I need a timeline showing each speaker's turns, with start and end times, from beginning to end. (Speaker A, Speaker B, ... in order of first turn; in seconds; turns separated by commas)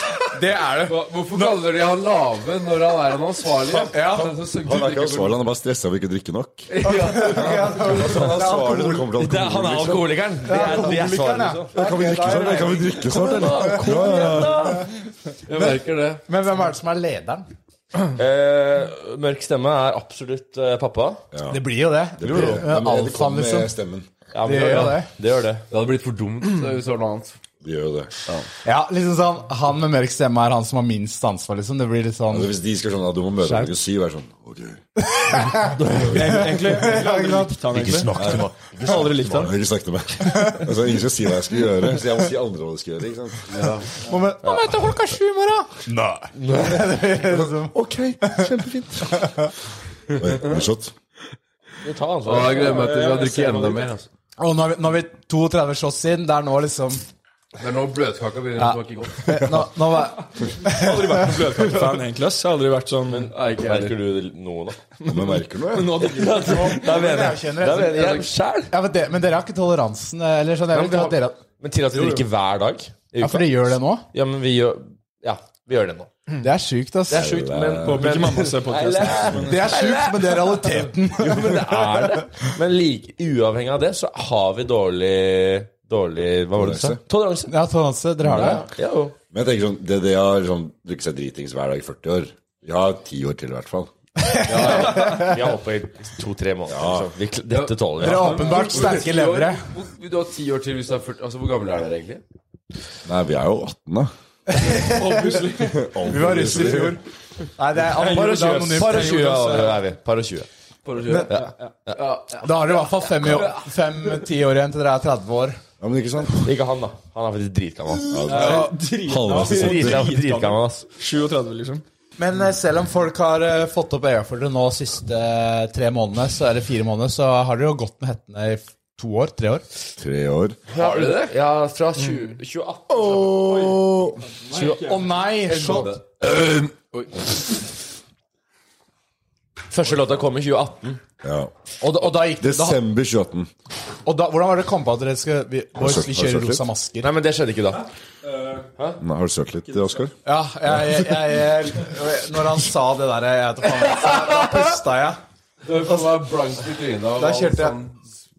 Speaker A: 0.3-1.6, Speaker B: 0.9-5.4, Speaker A: 3.9-4.4, Speaker C: 4.5-10.2, Speaker B: 6.7-7.7, Speaker A: 6.8-9.1, Speaker D: 7.8-8.5, Speaker D: 9.1-11.8, Speaker A: 10.4-14.1, Speaker C: 11.7-14.8, Speaker D: 12.3-14.9, Speaker B: 15.5-16.2, Speaker A: 16.3-17.4, Speaker D: 18.1-21.2, Speaker C: 21.3-21.6, Speaker A: 21.5-23.7, Speaker C: 22.2-24.1, Speaker D: 22.2-22.6, Speaker D: 24.3-25.6, Speaker A: 24.4-25.1, Speaker B: 25.7-27.4, Speaker C: 27.6-28.1, Speaker A: 28.6-32.5, Speaker C: 32.3-34.8, Speaker A: 35.0-37.7, Speaker D: 35.7-36.5, Speaker E: 36.0-39.5, Speaker D: 37.7-39.5, Speaker C: 38.1-43.7, Speaker A: 40.3-40.6, Speaker B: 43.5-43.9, Speaker A: 44.1-48.5, Speaker D: 44.4-44.7, Speaker D: 46.4-46.9, Speaker C: 47.3-49.3, Speaker A: 49.1-49.5, Speaker C: 50.1-50.9, Speaker D: 51.8-52.8, Speaker B: 52.2-54.1, Speaker E: 52.5-53.9, Speaker A: 54.4-57.0, Speaker B: 57.6-59.6, Speaker A: 58.6-61.4, Speaker E: 60.6-63.3, Speaker D: 63.1-64.8, Speaker B: 63.3-64.0, Speaker E: 65.0-66.9, Speaker C: 65.1-66.2, Speaker D: 66.0-68.7, Speaker A: 66.4-71.4, Speaker D: 70.7-76.1, Speaker A: 73.2-74.1, Speaker A: 76.4-77.3, Speaker D: 77.1-87.5, Speaker C: 77.1-78.2, Speaker E: 77.8-79.8, Speaker A: 79.4-82.2, Speaker C: 86.5-87.0, Speaker A: 87.5-88.6, Speaker D: 88.3-89.2, Speaker C: 88.3-88.6, Speaker C: 89.3-93.9, Speaker A: 94.2-95.3, Speaker B: 94.5-95.3, Speaker D: 94.6-98.7, Speaker C: 96.7-97.1, Speaker B: 97.5-102.2, Speaker A: 98.0-99.6, Speaker C: 103.0-104.1, Speaker A: 104.5-107.0, Speaker E: 104.8-105.9, Speaker C: 105.6-107.0, Speaker A: 107.6-109.5, Speaker E: 107.9-109.8, Speaker D: 108.1-110.5, Speaker B: 110.8-111.4, Speaker D: 111.3-112.0, Speaker B: 111.9-113.5, Speaker A: 112.4-115.6, Speaker C: 115.8-116.5, Speaker D: 116.4-118.5, Speaker C: 118.1-120.1, Speaker E: 118.2-121.8, Speaker A: 118.3-118.7, Speaker D: 119.3-120.9, Speaker A: 122.2-129.7, Speaker C: 130.0-130.6, Speaker D: 130.7-133.4, Speaker B: 130.7-131.4, Speaker E: 132.0-132.3, Speaker C: 132.9-134.2, Speaker E: 133.3-135.8, Speaker D: 134.5-134.8, Speaker A: 134.7-135.9, Speaker B: 135.5-137.5, Speaker D: 135.6-135.8, Speaker D: 139.7-141.0, Speaker C: 141.2-143.5, Speaker A: 141.8-142.8, Speaker A: 144.1-147.1, Speaker C: 145.8-146.6, Speaker D: 147.0-147.9, Speaker E: 148.3-148.7, Speaker C: 149.0-150.1, Speaker E: 149.7-150.0, Speaker A: 150.2-155.2, Speaker B: 155.6-158.0, Speaker A: 157.2-157.8